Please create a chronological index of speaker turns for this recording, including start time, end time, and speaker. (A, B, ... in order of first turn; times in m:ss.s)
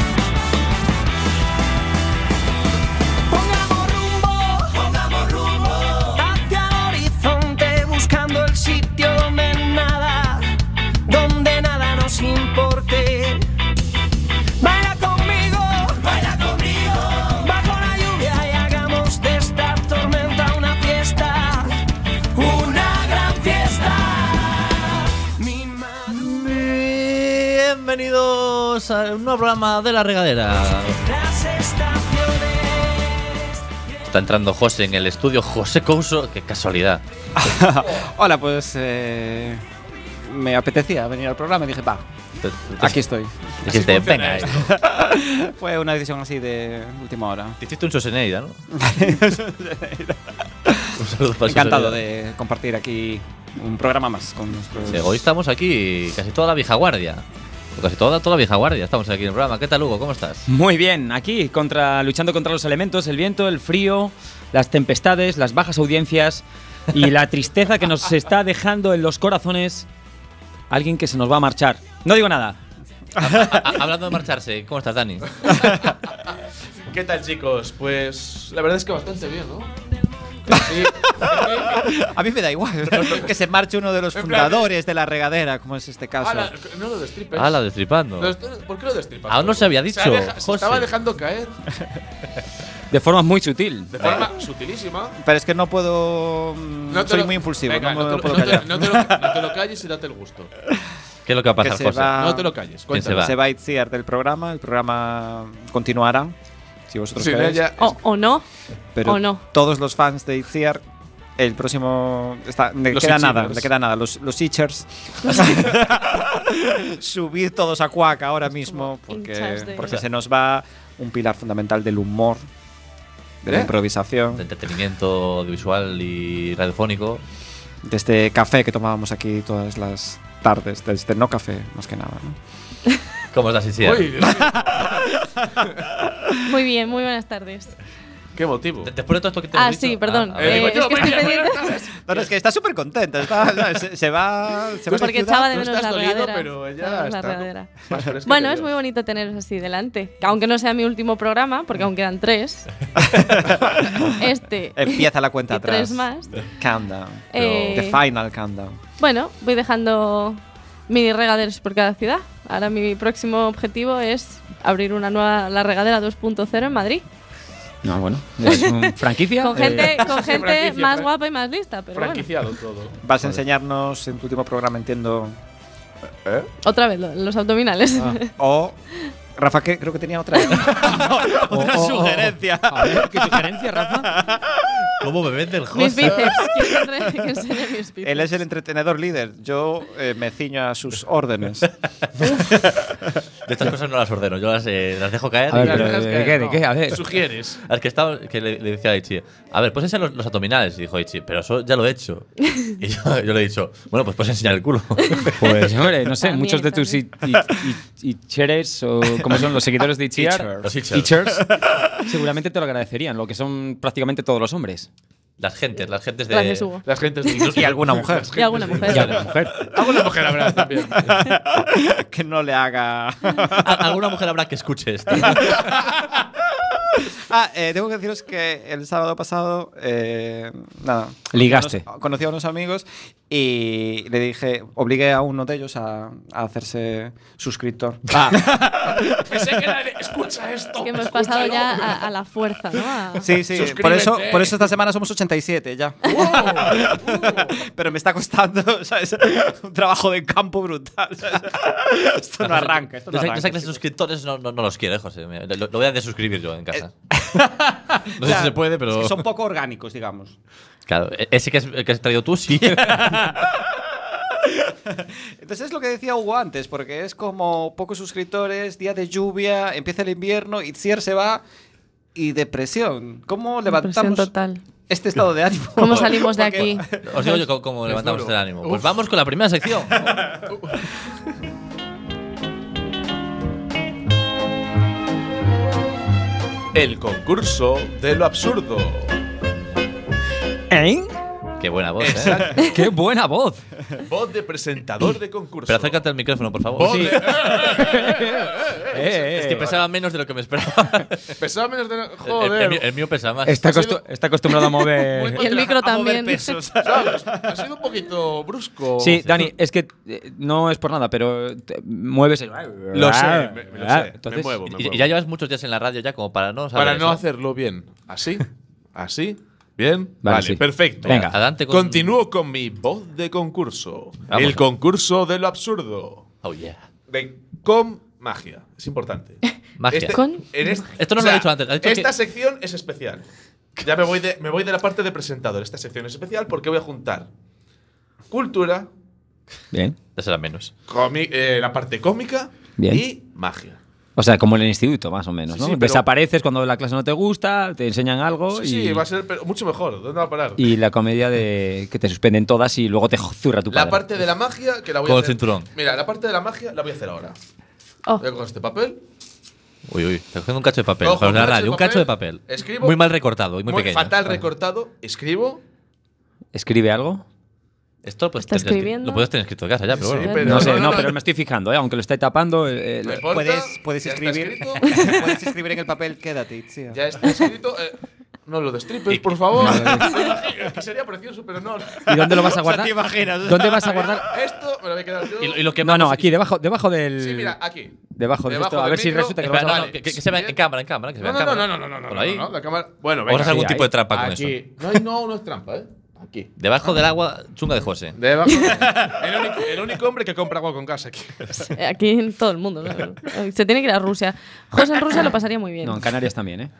0:03.3-0:10.5 A
0:11.0-0:13.4 A
0:14.6-0:21.7 A
0:22.3-0:26.3 A
0:26.1-0:31.0 B
0:31.0-0:33.5 A
0:34.1-0:37.0 B
0:37.4-0:39.6 C
0:40.2-0:42.0 C
0:42.4-0:43.0 B
0:42.8-0:43.6 C
0:43.6-0:44.7 B
0:43.6-0:44.7 D
0:44.5-0:47.6 C
0:47.6-0:48.6 B
0:48.7-0:55.2 C
0:51.0-0:52.0 B
0:54.9-0:57.2 B
0:57.8-1:00.5 B
1:00.5-1:09.9 E
1:10.7-1:12.6 E
1:13.2-1:13.7 C
1:13.2-1:15.5 B
1:15.4-1:16.3 D
1:16.9-1:19.7 D
1:20.5-1:22.0 D
1:20.9-1:26.5 C
1:22.9-1:23.4 D
1:24.1-1:24.7 D
1:26.2-1:27.6 D
1:27.3-1:28.3 B
1:28.2-1:31.6 D
1:29.3-1:30.9 B
1:32.9-1:33.9 E
1:33.9-1:35.2 D
1:34.0-1:34.3 B
1:35.2-1:39.5 C
1:36.9-1:40.5 D
1:41.3-1:42.2 B
1:41.6-1:42.5 C
1:42.2-1:43.2 D
1:42.9-1:43.4 B
1:43.0-1:46.3 C
1:46.9-1:47.6 C
1:47.2-1:48.0 D
1:47.8-1:48.4 F
1:49.0-1:50.8 C
1:49.0-1:49.4 F
1:51.4-2:02.5 C
1:52.9-1:53.7 D
1:55.2-1:55.6 F
1:58.7-2:00.0 F
2:03.4-2:04.4 C
2:03.4-2:03.7 D
2:04.3-2:07.2 B
2:07.8-2:12.4 C
2:13.3-2:14.3 B
2:13.8-2:15.7 D
2:14.3-2:15.5 C
2:16.4-2:17.7 F
2:18.4-2:18.9 D
2:18.8-2:21.2 B
2:19.5-2:21.8 F
2:20.4-2:22.3 D
2:22.0-2:25.6 C
2:24.9-2:32.7 F
2:24.9-2:28.7 D
2:33.1-2:33.8 C
2:34.0-2:36.5 F
2:34.8-2:38.8 C
2:37.3-2:38.0 F
2:37.4-2:37.8 B
2:39.0-2:47.0 F
2:47.8-2:49.9 E
2:48.4-2:52.3 F
2:49.9-2:51.1 D
2:51.9-2:53.0 D
2:53.0-2:55.4 C
2:56.6-2:58.3 F
2:58.4-2:58.8 C
2:59.4-3:04.9 C
3:01.4-3:04.1 E
3:05.0-3:06.5 B
3:05.7-3:08.4 F
3:08.0-3:11.7 C
3:12.2-3:13.0 C
3:13.4-3:16.1 B
3:15.5-3:17.0 E
3:15.5-3:17.6 D
3:17.6-3:25.7 B
3:25.4-3:34.9 E
3:26.2-3:27.0 F
3:29.1-3:30.5 C
3:30.6-3:31.2 B
3:31.3-3:31.8 C
3:35.4-3:36.7 B
3:36.3-3:36.8 F
3:36.8-3:41.3 D
3:37.4-3:37.7 B
3:37.4-3:38.7 C
3:38.3-3:39.2 F
3:38.9-3:39.5 E
3:41.1-3:44.1 C
3:43.6-3:45.6 B
3:45.1-3:45.9 C
3:47.0-3:59.7 C
3:51.3-3:51.8 E
3:58.1-4:02.1 D
4:00.8-4:03.3 F
4:02.8-4:04.7 D
4:03.2-4:13.8 C
4:06.0-4:07.6 D
4:12.4-4:16.9 B
4:16.7-4:20.3 C
4:18.2-4:19.2 B
4:20.9-4:23.2 B
4:22.6-4:31.4 C
4:32.1-4:34.3 C
4:33.6-4:34.6 F
4:34.9-4:36.8 C
4:35.8-4:36.9 F
4:37.0-4:40.2 B
4:37.1-4:38.9 D
4:40.5-4:40.9 D
4:46.7-4:49.1 D
4:50.7-4:51.1 E
4:51.6-4:52.5 B
4:52.0-4:52.8 D
4:52.6-4:53.6 E
4:54.0-4:56.0 D
4:55.7-4:57.3 B
4:56.8-4:59.8 D
4:56.8-4:59.7 E
4:59.3-5:01.4 B
5:01.4-5:02.8 D
5:02.2-5:04.0 B
5:03.4-5:05.4 E
5:05.0-5:05.8 D
5:05.3-5:06.6 F
5:05.4-5:07.7 C
5:06.8-5:09.5 D
5:09.0-5:14.5 E
5:12.9-5:15.1 D
5:14.6-5:17.2 B
5:16.7-5:26.2 D
5:20.2-5:21.4 E
5:21.0-5:22.2 B
5:24.3-5:24.6 B
5:26.4-5:26.8 B
5:27.1-5:33.3 D
5:29.8-5:30.2 B
5:30.1-5:30.7 F
5:30.9-5:32.1 B
5:33.8-5:37.3 D
5:38.3-5:38.9 D
5:40.2-5:40.7 B
5:40.9-5:43.8 D
5:42.8-5:43.0 E
5:44.2-5:49.0 E
5:45.5-5:46.0 D
5:48.5-5:50.6 D
5:50.6-5:54.2 E
5:53.7-5:57.4 D
5:55.0-5:55.7 B
5:58.2-5:59.0 D
5:59.9-6:04.4 B
6:01.0-6:03.0 D
6:03.6-6:05.6 D
6:06.5-6:07.2 E
6:08.0-6:10.7 B
6:08.4-6:09.3 F
6:09.9-6:11.1 D
6:10.2-6:10.7 F
6:10.4-6:13.2 E
6:13.0-6:15.1 D
6:13.3-6:17.4 C
6:14.9-6:15.2 F
6:16.9-6:22.4 D
6:19.1-6:19.8 B
6:19.6-6:20.2 E
6:22.0-6:24.3 E
6:22.4-6:24.2 C
6:24.2-6:25.6 D
6:25.4-6:26.3 B
6:25.8-6:27.6 E
6:27.2-6:27.9 D
6:28.2-6:29.9 E
6:28.4-6:30.6 D
6:29.4-6:32.5 B
6:31.2-6:36.5 D
6:33.2-6:34.6 B
6:33.4-6:33.9 E
6:36.6-6:38.2 B
6:38.2-6:41.7 D
6:38.5-6:38.7 F
6:38.7-6:39.4 C
6:41.7-6:46.1 F
6:45.8-6:46.7 E